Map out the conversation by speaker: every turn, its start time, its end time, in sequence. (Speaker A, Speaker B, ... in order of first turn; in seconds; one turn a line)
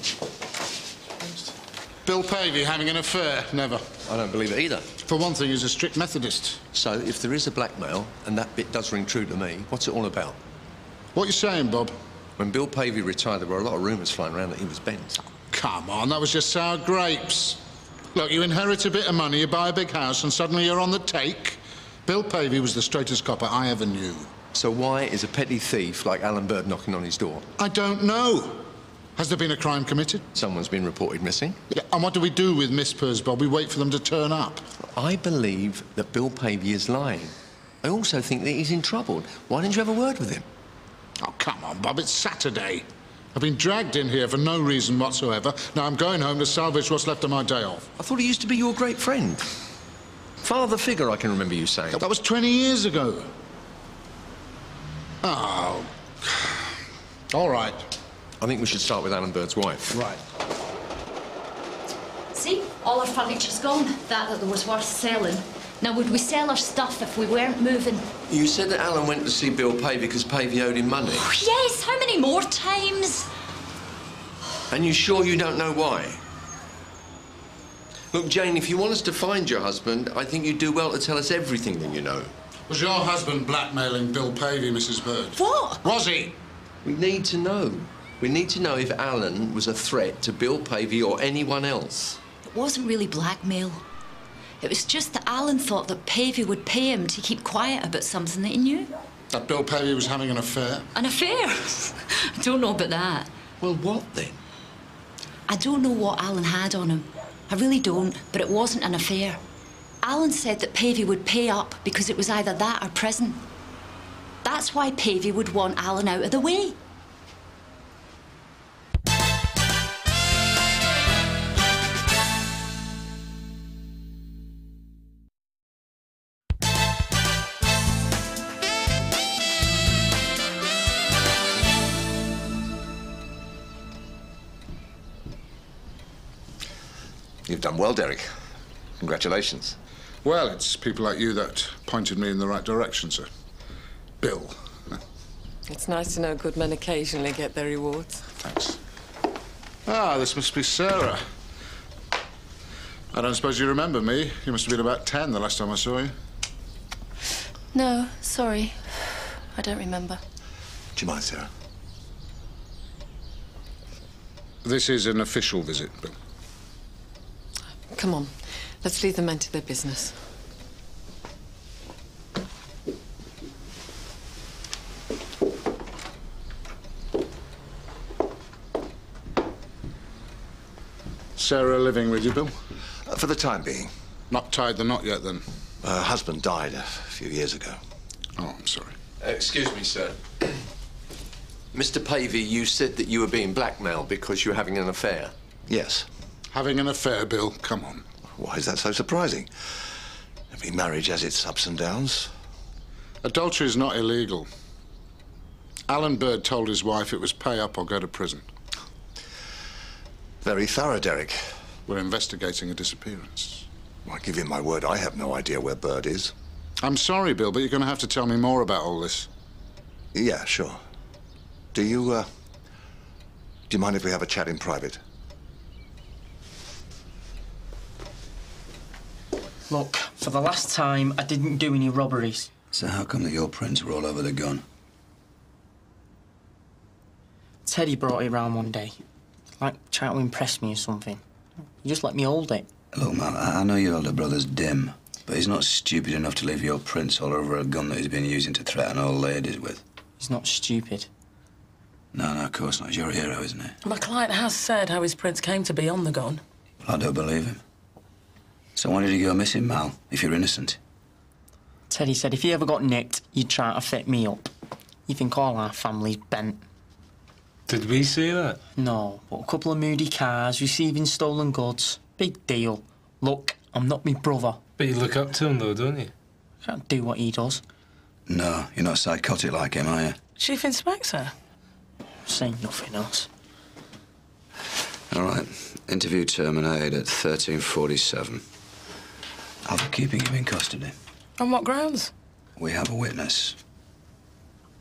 Speaker A: 2.0-3.9
Speaker B: 4.1-4.9
Speaker A: 5.0-6.6
Speaker B: 6.7-10.4
Speaker A: 11.1-12.0
Speaker B: 12.4-15.2
Speaker A: 15.5-17.6
Speaker A: 18.1-24.3
Speaker B: 24.5-27.5
Speaker A: 27.6-30.3
Speaker B: 30.3-31.6
Speaker A: 31.7-34.6
Speaker B: 34.8-40.5
Speaker A: 41.2-47.9
Speaker B: 48.0-49.5
Speaker B: 50.4-52.1
Speaker A: 51.9-53.3
Speaker A: 55.2-56.7
Speaker A: 57.3-57.8
Speaker B: 58.4-60.0
Speaker A: 59.9-60.2
Speaker C: 62.3-68.1
Speaker B: 68.3-71.3
Speaker C: 71.2-73.3
Speaker B: 74.7-76.2
Speaker B: 78.1-82.3
Speaker A: 82.7-86.3
Speaker B: 86.8-92.2
Speaker C: 92.5-93.8
Speaker C: 94.6-98.9
Speaker A: 99.3-100.9
Speaker C: 101.0-103.3
Speaker B: 103.6-104.4
Speaker C: 105.5-109.4
Speaker C: 110.0-113.4
Speaker C: 114.4-116.8
Speaker D: 137.5-138.3
Speaker D: 139.0-139.8
Speaker A: 140.2-143.3
Speaker A: 144.2-145.0
Speaker E: 145.7-148.4
Speaker A: 149.9-151.2
Speaker A: 153.1-156.1
Speaker F: 157.7-160.2
Speaker D: 160.9-161.5
Speaker A: 164.6-166.2
Speaker E: 167.9-170.2
Speaker A: 181.4-182.6
Speaker D: 183.1-183.9
Speaker A: 184.3-185.5
Speaker D: 185.8-187.8
Speaker A: 188.4-188.9
Speaker B: 189.2-190.2
Speaker B: 191.7-195.3
Speaker D: 195.7-196.1
Speaker A: 196.5-198.1
Speaker D: 198.3-199.5
Speaker D: 200.5-202.3
Speaker A: 203.2-204.5
Speaker A: 205.9-208.5
Speaker D: 210.4-211.6
Speaker A: 211.9-213.7
Speaker D: 214.1-216.3
Speaker A: 216.8-219.3
Speaker D: 220.1-220.8
Speaker D: 221.7-222.3
Speaker D: 223.7-225.0
Speaker G: 229.7-232.5
Speaker H: 232.7-234.6
Speaker G: 237.7-239.0
Speaker G: 239.6-241.2
Speaker G: 241.8-242.7
Speaker H: 242.9-249.8
Speaker G: 250.2-251.1
Speaker H: 252.1-253.8
Speaker I: 253.8-256.4
Speaker H: 256.8-257.6
Speaker H: 258.8-260.8
Speaker G: 261.9-264.5
Speaker G: 265.1-266.6
Speaker J: 267.7-268.6
Speaker G: 268.8-274.6
Speaker J: 274.8-276.1
Speaker G: 276.6-277.6
Speaker H: 278.3-280.2
Speaker I: 280.4-281.3
Speaker G: 282.2-283.3
Speaker H: 285.1-288.4
Speaker H: 289.6-290.9
Speaker I: 291.4-292.1
Speaker H: 292.6-293.6